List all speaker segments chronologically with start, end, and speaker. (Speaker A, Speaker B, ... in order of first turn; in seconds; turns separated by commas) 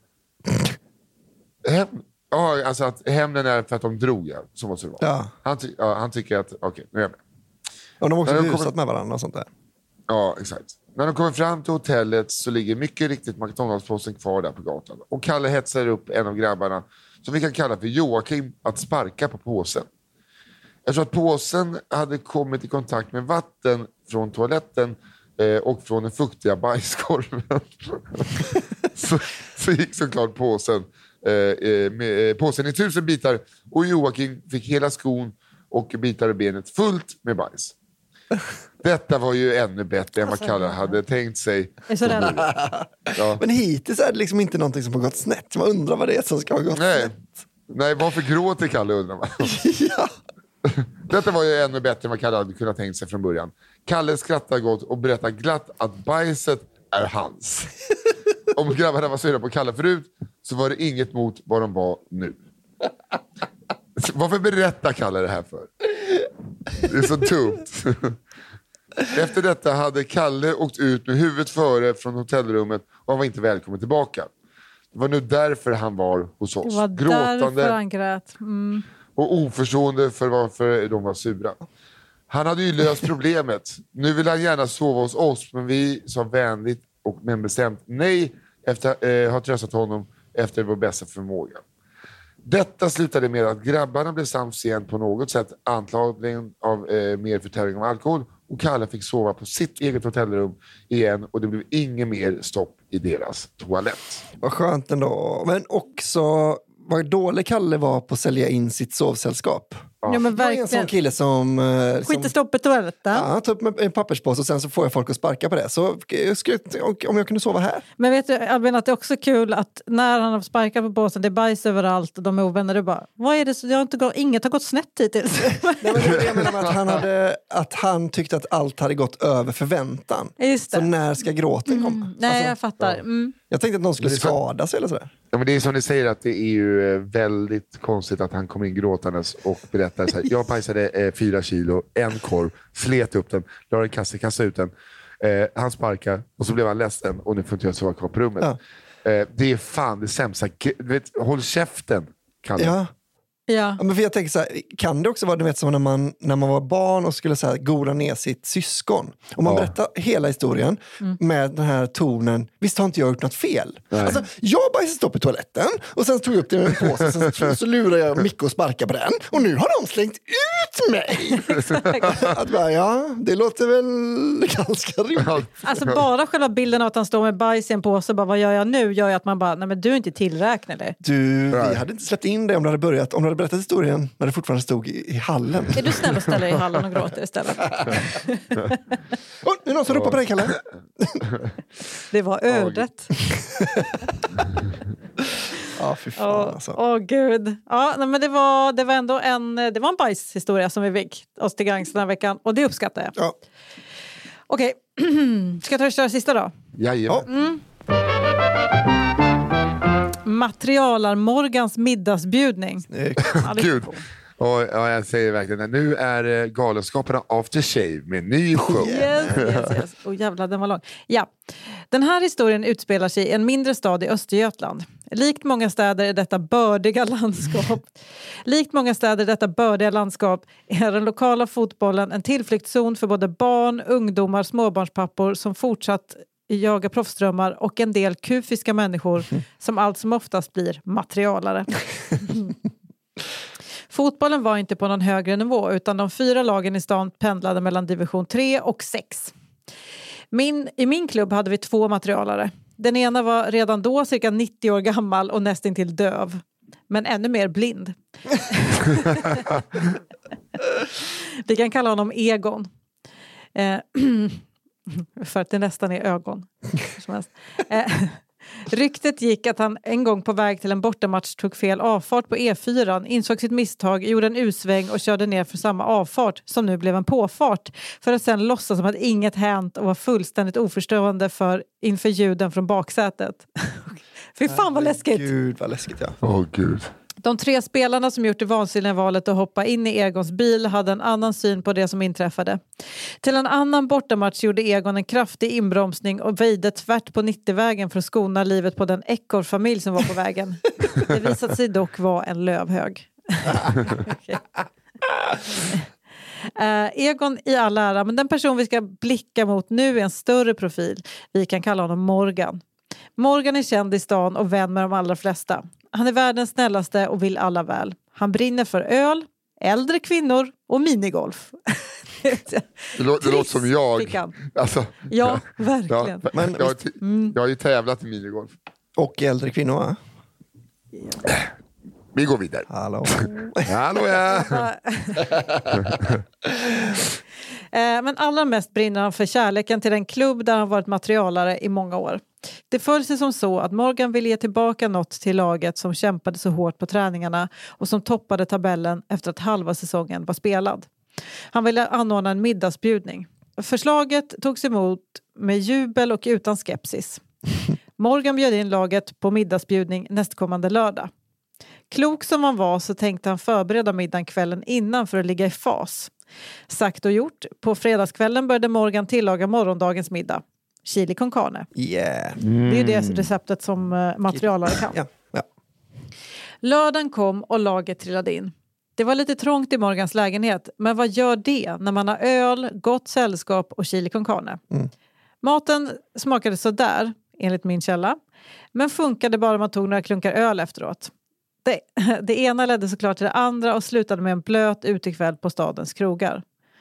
Speaker A: 1.6-7.2, Speaker B: 5.0-5.3, Speaker B: 8.0-9.5, Speaker A: 8.2-8.7, Speaker A: 10.1-19.9, Speaker A: 20.9-37.7, Speaker A: 38.8-42.5, Speaker C: 40.2-41.0, Speaker C: 41.9-42.4, Speaker B: 42.2-47.4, Speaker A: 43.1-43.4, Speaker A: 46.7-47.1, Speaker A: 47.7-49.6, Speaker B: 49.4-50.1, Speaker A: 50.6-57.7, Speaker A: 58.5-62.4, Speaker A: 64.0-65.7, Speaker A: 66.8-68.2, Speaker A: 69.1-74.3, Speaker A: 74.9-77.8, Speaker C: 76.7-78.8, Speaker A: 79.2-81.6, Speaker A: 82.3-91.6, Speaker A: 92.4-104.2, Speaker B: 104.4-112.3, Speaker A: 110.0-110.3, Speaker C: 110.1-110.9, Speaker C: 112.0-113.3, Speaker B: 113.1-117.9, Speaker C: 118.0-126.2, Speaker B: 125.7-132.9, Speaker A: 126.1-127.0, Speaker C: 130.4-130.9, Speaker C: 131.7-133.3, Speaker B: 133.5-135.1, Speaker A: 134.0-134.4, Speaker A: 135.3-148.5, Speaker A: 149.1-152.7, Speaker B: 152.6-152.9, Speaker C: 153.5-153.8, Speaker B: 153.8-175.5, Speaker A: 159.4-159.7, Speaker A: 163.9-164.2, Speaker A: 166.9-167.3, Speaker C: 171.4-172.1, Speaker A: 171.5-172.4, Speaker A: 175.2-176.0, Speaker C: 175.6-180.9, Speaker B: 181.0-186.9, Speaker A: 181.5-181.8, Speaker C: 185.7-188.9, Speaker B: 189.4-191.2, Speaker A: 189.9-190.6, Speaker C: 192.1-193.1, Speaker A: 192.5-192.9, Speaker B: 193.6-193.9, Speaker B: 195.7-196.8, Speaker C: 196.2-203.2, Speaker C: 204.5-206.5, Speaker A: 206.8-207.3, Speaker C: 207.3-207.6, Speaker C: 210.2-214.0, Speaker B: 212.9-213.4, Speaker A: 213.2-219.7, Speaker B: 218.6-219.4, Speaker C: 218.8-221.3, Speaker C: 221.9-227.9, Speaker C: 228.4-242.5, Speaker C: 243.9-249.3, Speaker C: 250.3-259.5, Speaker C: 261.4-262.7, Speaker C: 263.6-285.3, Speaker B: 284.5-286.2, Speaker A: 286.2-286.9, Speaker C: 287.2-292.6, Speaker C: 293.2-304.4, Speaker C: 305.6-305.8, Speaker C: 306.5-312.6, Speaker C: 313.2-324.4, Speaker A: 322.9-328.6, Speaker C: 325.1-326.2, Speaker B: 326.3-326.7, Speaker C: 327.0-327.4, Speaker B: 328.9-330.0, Speaker A: 332.1-334.7, Speaker B: 332.7-333.8, Speaker C: 334.3-335.4, Speaker A: 335.7-336.1, Speaker C: 337.7-350.9, Speaker C: 351.5-357.2, Speaker C: 358.0-361.1, Speaker C: 361.9-366.1, Speaker C: 366.7-371.7, Speaker B: 371.7-372.4, Speaker A: 372.4-373.3, Speaker C: 372.6-374.9, Speaker B: 374.3-375.5, Speaker C: 376.6-384.6, Speaker C: 385.4-388.2, Speaker C: 388.7-391.1, Speaker C: 391.6-396.4